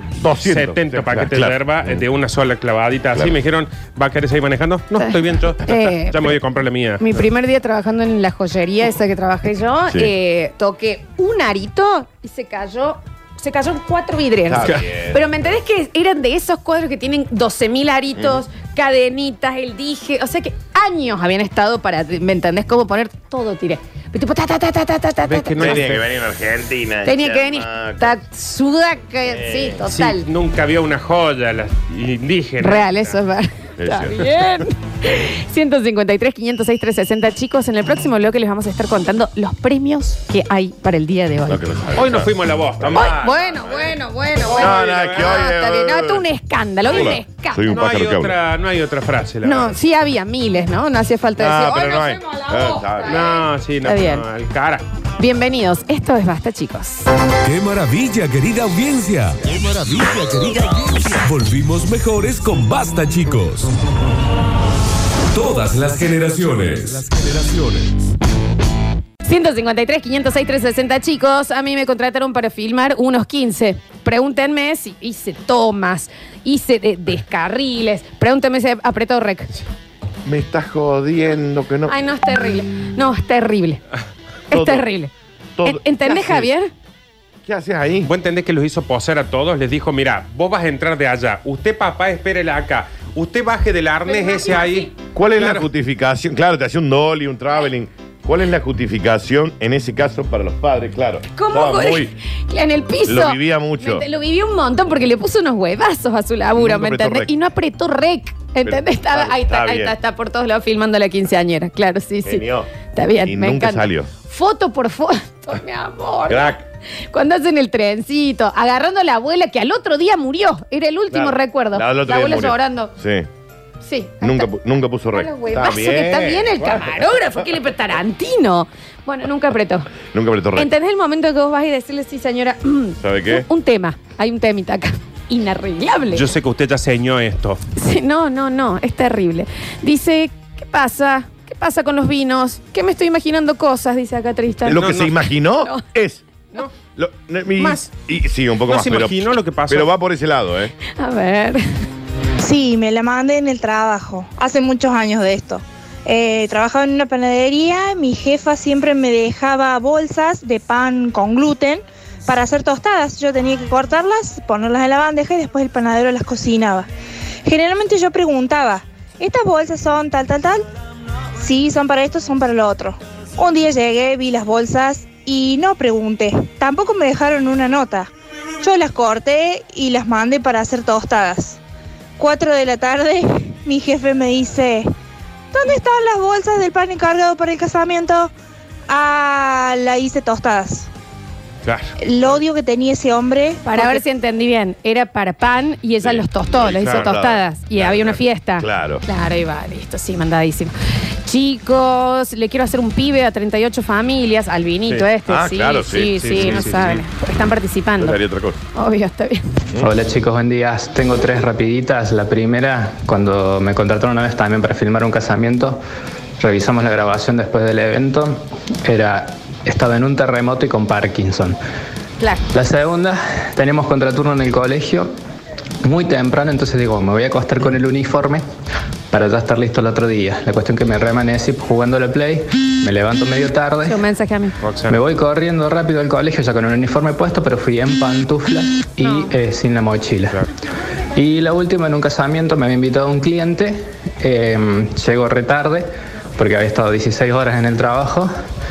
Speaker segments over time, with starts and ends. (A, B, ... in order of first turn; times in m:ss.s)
0:00.2-0:02.0 A
0:00.4-0:07.2 B
0:05.0-0:06.4 C
0:07.0-0:25.8 C
0:14.5-0:15.3 A
0:18.2-0:18.4 A
0:25.2-0:26.1 B
0:25.6-0:28.2 A
0:27.0-0:30.3 C
0:29.3-0:29.8 A
0:29.8-0:33.2 B
0:32.6-0:41.6 C
0:33.8-0:34.5 A
0:41.5-0:44.0 A
0:42.0-0:43.3 B
0:43.0-0:47.8 C
0:44.5-0:45.4 B
0:44.5-0:46.3 A
0:46.9-0:48.4 A
0:47.7-0:49.8 B
0:49.4-0:54.2 C
0:51.4-0:53.4 A
0:53.1-0:54.8 B
0:55.2-0:57.1 C
0:57.4-1:03.7 D
1:05.3-1:08.0 D
1:09.2-1:19.6 C
1:20.2-1:22.0 A
1:21.9-1:23.8 C
1:24.5-1:24.9 A
1:24.5-1:25.1 C
1:25.6-1:26.5 A
1:25.6-1:26.7 C
1:27.4-1:28.1 A
1:28.0-1:35.7 B
1:34.1-1:34.9 C
1:35.1-1:42.2 A
1:41.4-1:56.6 C
1:43.0-1:44.1 A
1:46.6-1:47.3 A
1:48.6-1:50.0 A
1:52.2-1:54.1 A
1:56.3-1:56.6 A
1:57.1-2:02.9 C
2:01.1-2:03.3 A
2:03.8-2:04.5 C
2:04.2-2:07.1 A
2:05.1-2:09.9 C
2:10.1-2:10.7 A
2:10.6-2:16.2 C
2:13.0-2:13.5 A
2:16.1-2:17.6 B
2:17.8-2:24.8 C
2:24.6-2:26.2 A
2:24.8-2:25.2 B
2:27.0-2:30.7 A
2:27.6-2:27.9 B
2:28.7-2:29.9 B
2:30.9-2:31.6 C
2:32.4-2:46.9 E
2:47.4-2:50.6 E
2:51.4-2:58.1 E
2:58.6-3:01.6 E
3:02.2-3:04.9 E
3:05.5-3:08.3 E
3:08.9-3:10.9 E
3:11.6-3:12.0 B
3:12.0-3:14.0 E
3:13.6-3:20.7 C
3:16.0-3:17.9 A
3:17.8-3:18.2 B
3:18.6-3:19.0 A
3:21.2-3:28.2 C
3:25.3-3:27.0 A
3:26.2-3:27.0 B
3:28.0-3:28.6 A
3:28.7-3:29.6 C
3:29.8-3:35.8 F
3:36.4-3:41.6 F
3:42.2-3:42.4 C
3:42.5-3:45.1 F
3:45.8-3:48.4 F
3:49.1-3:54.0 F
3:53.8-3:54.6 C
3:54.6-3:55.0 B
3:54.9-4:00.4 F
3:59.0-3:59.3 C
4:01.2-4:08.3 F